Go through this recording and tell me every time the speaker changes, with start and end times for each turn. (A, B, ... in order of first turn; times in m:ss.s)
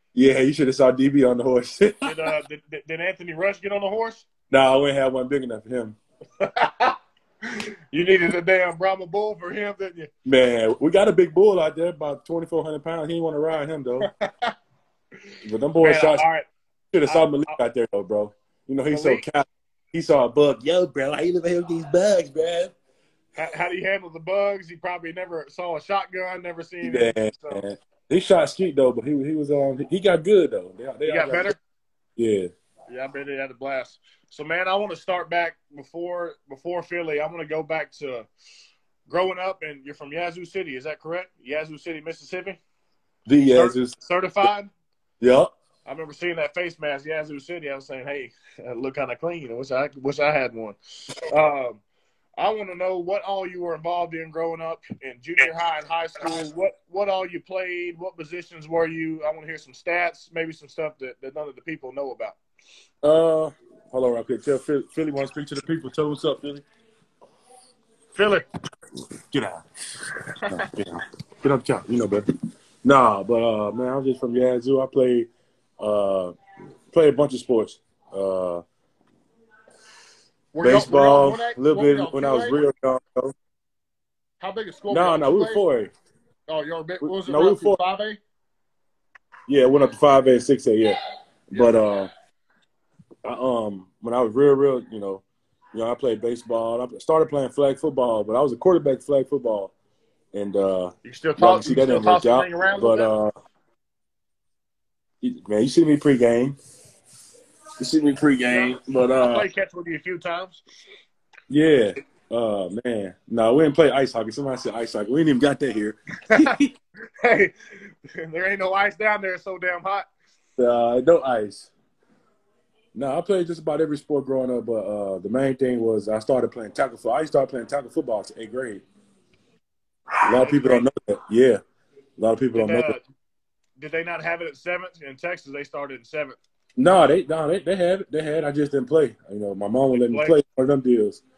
0:00.2-0:02.3 A
0:02.0-0:04.3 B
0:04.5-0:06.0 A
0:06.4-0:10.1 B
0:10.2-0:14.1 A
0:14.0-0:14.5 B
0:15.4-0:16.2 A
0:15.8-0:16.5 B
0:16.9-0:22.7 A
0:17.1-0:17.6 B
0:18.9-0:19.2 B
0:23.4-0:27.6 B
0:26.8-0:31.5 A
0:31.0-0:31.6 B
0:32.2-0:32.5 A
0:32.9-0:38.3 B
0:39.1-0:42.6 B
0:43.2-0:43.9 A
0:43.5-0:44.7 B
0:45.2-0:45.5 A
0:45.9-0:51.8 B
0:52.4-1:02.4 B
1:03.0-1:06.6 A
1:08.1-1:08.4 B
1:09.3-1:09.6 A
1:10.4-1:10.6 B
1:10.5-1:12.2 A
1:12.8-1:15.3 A
1:15.8-1:16.3 A
1:16.9-1:18.6 A
1:20.5-1:22.6 B
1:20.6-1:23.3 A
1:24.4-1:25.6 B
1:24.9-1:25.9 A
1:26.5-1:28.2 B
1:27.0-1:27.8 A
1:29.5-1:31.0 A
1:31.5-1:32.1 A
1:33.2-1:39.7 A
1:40.3-1:43.3 A
1:41.0-1:43.1 B
1:45.2-1:46.6 A
1:47.8-1:49.5 A
1:48.5-1:50.6 B
1:51.5-1:56.7 A
1:57.2-2:00.1 B
2:00.6-2:01.7 A
2:02.9-2:08.8 A
2:10.2-2:11.6 A
2:10.3-2:10.9 B
2:12.2-2:13.0 A
2:12.6-2:13.0 B
2:13.8-2:16.4 B
2:16.8-2:21.2 A
2:20.0-2:20.4 B